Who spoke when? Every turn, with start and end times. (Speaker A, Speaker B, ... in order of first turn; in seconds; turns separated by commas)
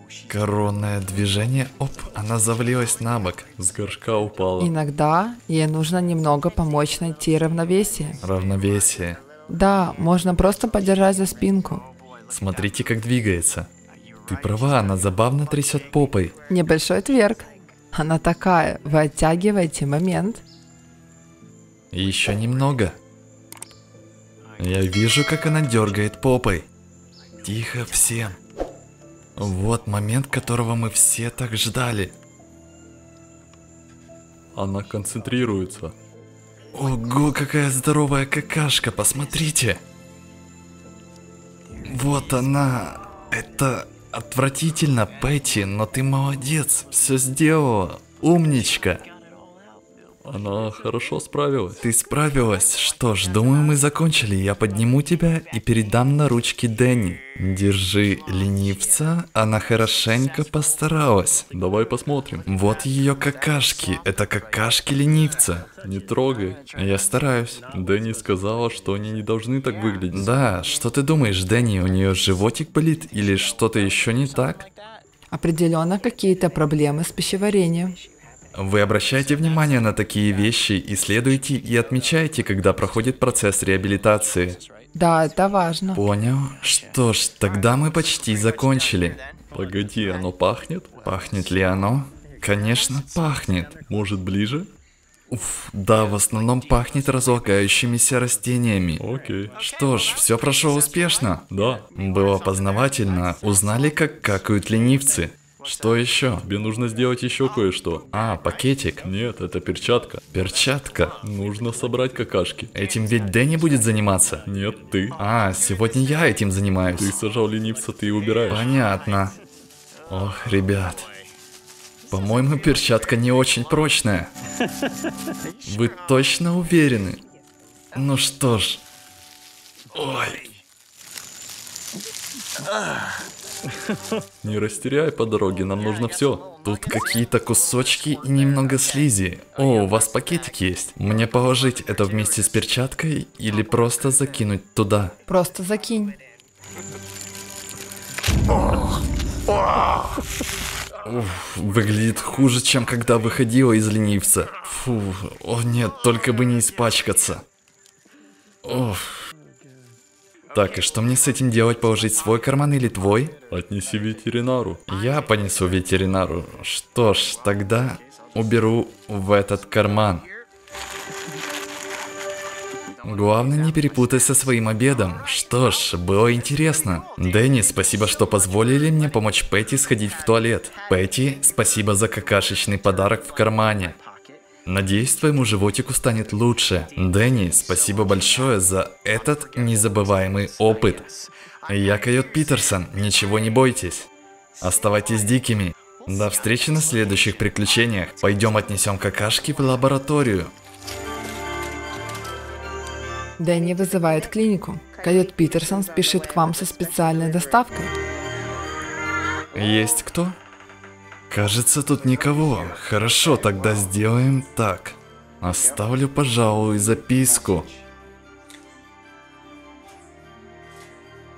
Speaker A: 0.3-3.5, Speaker B: 3.6-4.7, Speaker C: 4.6-8.2, Speaker A: 8.2-9.2, Speaker C: 9.5-11.9, Speaker A: 12.3-13.7, Speaker A: 14.3-16.4, Speaker C: 16.5-20.4, Speaker A: 21.9-23.0, Speaker A: 24.6-26.7, Speaker A: 27.4-28.4, Speaker A: 29.4-32.1, Speaker B: 34.5-36.0, Speaker A: 36.7-39.8, Speaker A: 41.9-49.1, Speaker B: 50.2-51.8, Speaker A: 51.8-61.5, Speaker B: 61.5-62.5, Speaker A: 62.5-65.7, Speaker B: 65.8-66.7, Speaker A: 66.7-67.7, Speaker B: 67.7-70.4, Speaker A: 70.1-74.7, Speaker C: 75.3-78.0, Speaker A: 78.5-84.6, Speaker C: 84.9-86.0, Speaker A: 86.0-89.2, Speaker B: 89.5-90.9, Speaker A: 91.0-93.8, Speaker B: 93.8-94.7, Speaker A: 95.3-99.0, Speaker B: 99.0-99.6, Speaker A: 99.6-106.5, Speaker B: 101.5-101.9, Speaker B: 106.4-108.0, Speaker A: 108.1-109.1, Speaker B: 109.0-110.2, Speaker A: 110.3-111.2, Speaker B: 111.2-112.7, Speaker A: 112.7-114.5, Speaker B: 114.5-115.2, Speaker A: 115.2-117.2, Speaker B: 117.0-118.7, Speaker A: 118.5-119.4, Speaker A: 120.1-121.1, Speaker A: 122.1-124.3, Speaker A: 125.6-127.2, Speaker A: 127.9-128.8, Speaker A: 129.9-130.5, Speaker B: 134.4-136.6, Speaker A: 136.4-145.2, Speaker C: 145.3-146.2, Speaker A: 151.1-157.4, Speaker A: 158.6-159.3, Speaker A: 160.5-163.4, Speaker B: 163.5-164.8, Speaker A: 164.9-170.3, Speaker A: 173.0-184.0, Speaker A: 184.7-191.1, Speaker A: 191.7-194.1, Speaker A: 194.6-200.5, Speaker C: 203.4-207.9, Speaker A: 209.5-210.4, Speaker A: 211.3-217.7